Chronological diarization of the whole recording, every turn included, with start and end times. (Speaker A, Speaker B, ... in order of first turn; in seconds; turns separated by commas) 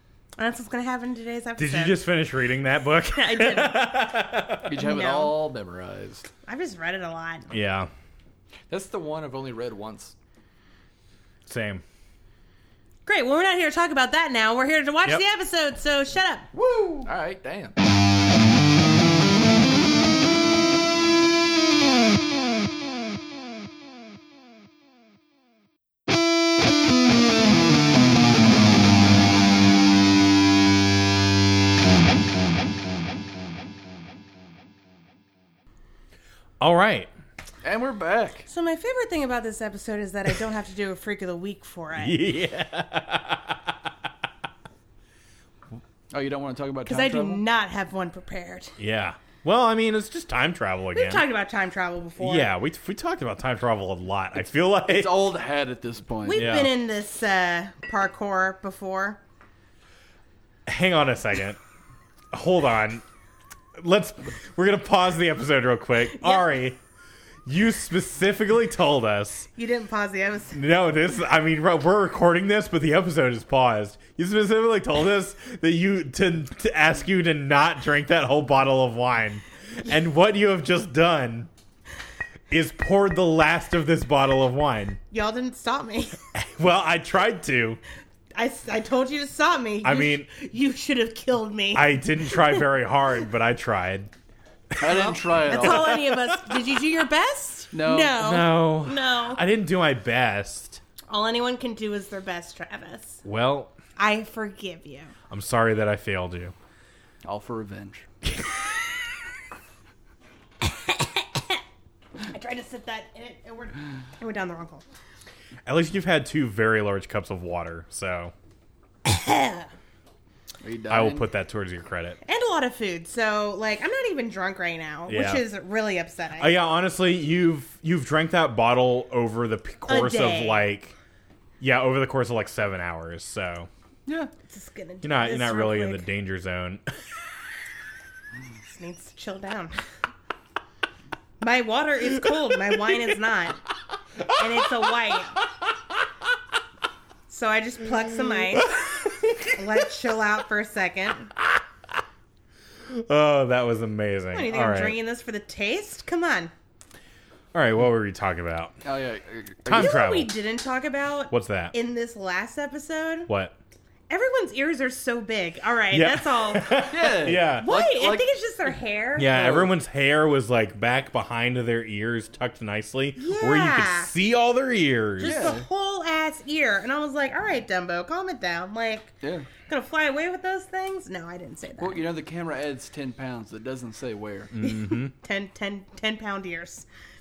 Speaker A: 0.4-2.0, Speaker B: 1.6-4.8, Speaker A: 3.1-4.1, Speaker C: 4.7-6.3, Speaker A: 4.8-5.4, Speaker A: 6.5-7.5, Speaker B: 7.5-7.9, Speaker C: 8.7-10.1, Speaker B: 11.5-11.8, Speaker A: 13.1-16.5, Speaker C: 17.0-17.8, Speaker B: 36.6-37.1, Speaker C: 37.6-38.5, Speaker A: 38.5-42.2, Speaker B: 42.0-43.9, Speaker C: 46.1-47.4, Speaker A: 46.9-48.8, Speaker B: 48.8-51.2, Speaker A: 50.9-52.5, Speaker B: 52.2-55.2, Speaker C: 54.9-56.5, Speaker A: 56.2-59.2, Speaker B: 56.4-56.7, Speaker B: 60.7-61.6, Speaker B: 62.3-63.0, Speaker B: 63.8-66.8, Speaker A: 66.1-66.5, Speaker B: 67.5-69.5, Speaker A: 69.6-70.6, Speaker B: 70.5-81.5, Speaker B: 82.5-85.0, Speaker A: 85.1-86.2, Speaker B: 86.3-87.8, Speaker A: 88.4-92.7, Speaker B: 89.8-90.3, Speaker B: 91.7-94.1, Speaker C: 94.8-96.0, Speaker A: 94.8-99.4, Speaker B: 95.6-96.6, Speaker C: 97.7-98.2, Speaker B: 98.2-100.8, Speaker A: 101.1-103.2, Speaker B: 103.2-103.8, Speaker A: 104.0-105.1, Speaker B: 105.3-106.5, Speaker C: 107.2-108.1, Speaker A: 110.6-111.6, Speaker A: 112.2-114.8, Speaker B: 115.7-118.3, Speaker A: 119.0-119.7, Speaker C: 120.6-121.3, Speaker B: 120.9-122.2, Speaker A: 122.2-126.5, Speaker B: 125.1-125.4, Speaker B: 126.4-130.9, Speaker A: 129.9-130.7, Speaker B: 131.6-133.7, Speaker A: 134.5-136.1, Speaker B: 135.0-136.8, Speaker A: 138.7-139.8, Speaker A: 141.4-143.6, Speaker B: 144.3-144.6, Speaker A: 144.3-145.4, Speaker A: 147.3-148.7, Speaker B: 148.6-149.6, Speaker A: 149.5-151.3, Speaker B: 152.9-155.0, Speaker A: 154.3-156.5, Speaker B: 157.5-158.8, Speaker C: 158.8-159.9, Speaker B: 159.7-160.3, Speaker A: 159.7-163.3, Speaker B: 161.3-161.7, Speaker B: 163.3-163.6, Speaker A: 164.1-166.9, Speaker B: 165.9-167.7, Speaker C: 166.9-168.3, Speaker A: 167.6-169.5, Speaker B: 169.2-175.6, Speaker C: 169.3-169.7, Speaker A: 173.2-174.1, Speaker A: 175.2-182.1, Speaker C: 175.2-175.7, Speaker C: 179.2-179.5, Speaker C: 181.8-184.5, Speaker B: 184.5-185.1, Speaker A: 184.6-186.9